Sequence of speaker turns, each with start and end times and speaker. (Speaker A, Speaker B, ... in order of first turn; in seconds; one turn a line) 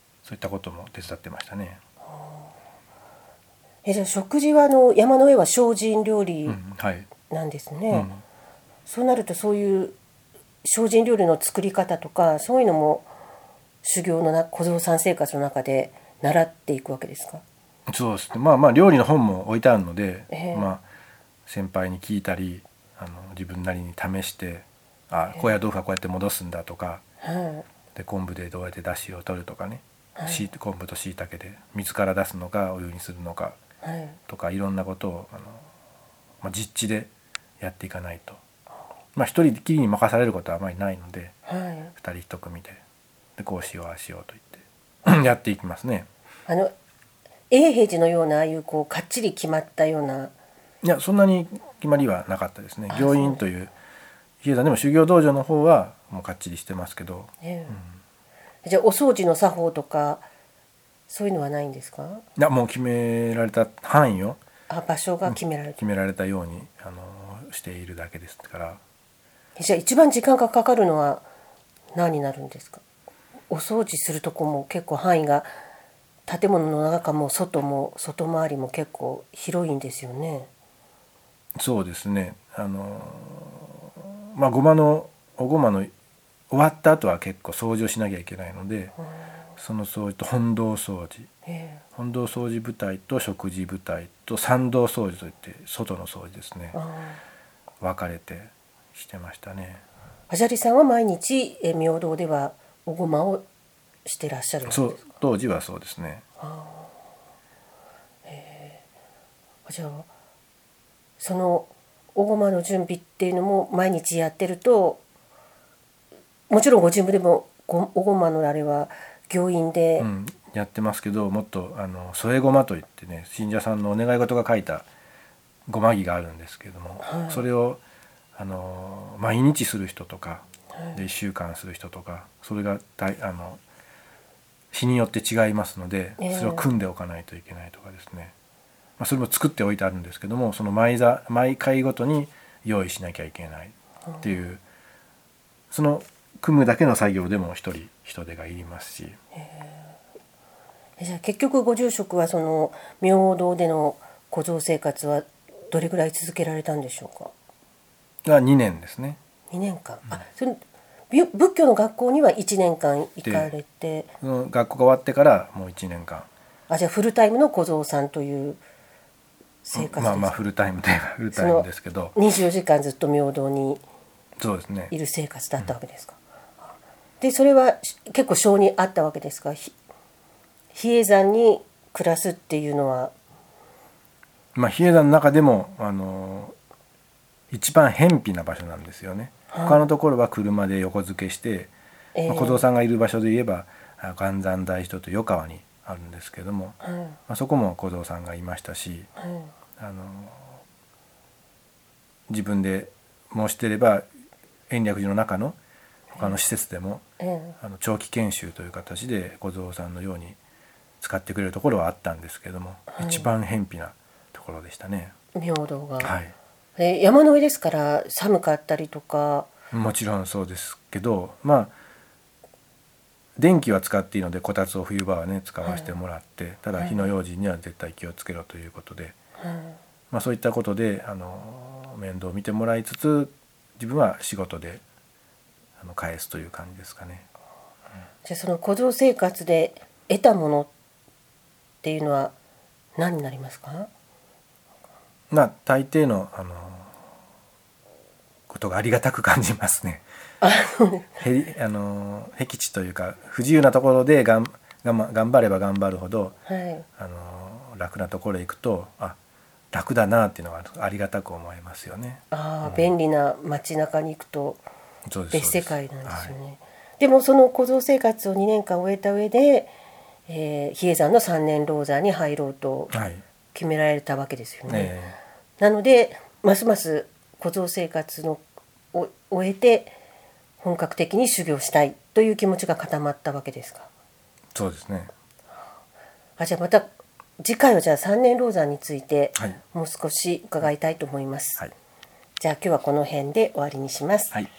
Speaker A: 0.2-1.8
Speaker B: 2.1-2.5
Speaker B: 3.8-6.6
Speaker A: 6.5-7.1
Speaker B: 7.3-8.1
Speaker A: 7.9-8.2
Speaker B: 8.8-9.9
Speaker B: 10.6-13.1
Speaker B: 13.8-17.4
Speaker A: 17.9-20.8
Speaker B: 20.3-20.7
Speaker A: 21.5-27.0
Speaker B: 27.2-27.6
Speaker A: 27.9-33.6
Speaker B: 30.2-30.5
Speaker B: 33.8-34.2
Speaker A: 34.3-35.6
Speaker A: 36.4-38.4
Speaker A: 39.1-41.3
Speaker B: 41.5-41.9
Speaker A: 42.0-42.8
Speaker A: 43.4-46.1
Speaker B: 46.5-46.7
Speaker B: 47.5-50.3
Speaker A: 50.8-53.7
Speaker B: 52.9-53.4
Speaker A: 54.4-57.9
Speaker B: 57.4-57.8
Speaker B: 58.6-60.2
Speaker B: 61.1-62.2
Speaker A: 62.4-64.4
Speaker B: 64.7-65.8
Speaker A: 65.2-68.8
Speaker B: 69.6-71.2
Speaker B: 71.9-72.8
Speaker B: 73.5-75.5
Speaker B: 76.3-80.5
Speaker A: 81.6-85.9
Speaker A: 86.5-88.9
Speaker A: 89.6-91.3
Speaker B: 91.5-91.8
Speaker A: 92.0-96.8
Speaker B: 96.7-97.2
Speaker A: 97.8-99.8
Speaker B: 100.3-103.4
Speaker B: 104.0-105.0
Speaker A: 104.7-106.2
Speaker B: 106.4-106.9
Speaker B: 108.2-108.8
Speaker B: 109.7-110.1
Speaker B: 111.2-115.0
Speaker B: 116.5-120.1
Speaker A: 120.0-124.8
Speaker A: 125.7-127.8
Speaker B: 127.0-127.4
Speaker A: 128.3-133.6
Speaker A: 134.7-138.3
Speaker B: 136.2-136.7
Speaker A: 139.0-144.6
Speaker A: 145.7-149.2
Speaker B: 149.4-149.9
Speaker B: 151.0-157.3
Speaker A: 158.2-159.2
Speaker B: 159.5-164.1
Speaker A: 163.2-163.5
Speaker A: 164.2-166.3
Speaker B: 166.7-168.6
Speaker B: 169.6-170.4
Speaker A: 169.7-172.1
Speaker B: 171.3-173.8
Speaker A: 174.4-174.9
Speaker B: 174.9-176.2
Speaker B: 176.7-179.7
Speaker B: 180.7-183.1
Speaker A: 184.5-186.5
Speaker A: 187.5-191.7
Speaker B: 189.5-189.9
Speaker B: 192.1-192.6
Speaker A: 192.2-199.1
Speaker B: 196.8-197.2
Speaker B: 199.2-199.5
Speaker A: 199.8-200.6
Speaker A: 202.3-204.0
Speaker A: 204.7-205.6
Speaker A: 206.2-207.0
Speaker B: 207.2-207.6
Speaker A: 207.6-210.4
Speaker A: 211.0-215.1
Speaker B: 212.9-213.3
Speaker B: 215.3-216.1
Speaker A: 216.0-216.3
Speaker B: 216.8-219.5
Speaker A: 219.7-221.7
Speaker A: 223.4-229.1
Speaker B: 225.6-225.9
Speaker B: 226.8-227.1
Speaker B: 229.4-229.8
Speaker A: 230.1-234.8
Speaker A: 235.8-237.2
Speaker B: 238.2-240.7
Speaker B: 241.8-242.3
Speaker B: 243.0-243.9
Speaker A: 245.3-246.9
Speaker A: 248.5-250.0
Speaker B: 250.4-251.1
Speaker A: 251.2-256.4
Speaker B: 256.5-256.8
Speaker A: 257.0-259.2
Speaker A: 259.7-262.9
Speaker B: 262.3-264.6
Speaker A: 265.1-266.4
Speaker B: 265.3-269.7
Speaker B: 270.3-272.9
Speaker A: 272.9-273.2
Speaker B: 273.5-275.0
Speaker A: 274.7-275.2
Speaker B: 275.6-278.4
Speaker B: 278.9-279.9
Speaker B: 280.6-283.9
Speaker A: 284.5-285.1
Speaker B: 286.4-286.9
Speaker B: 287.4-291.6
Speaker B: 292.4-294.3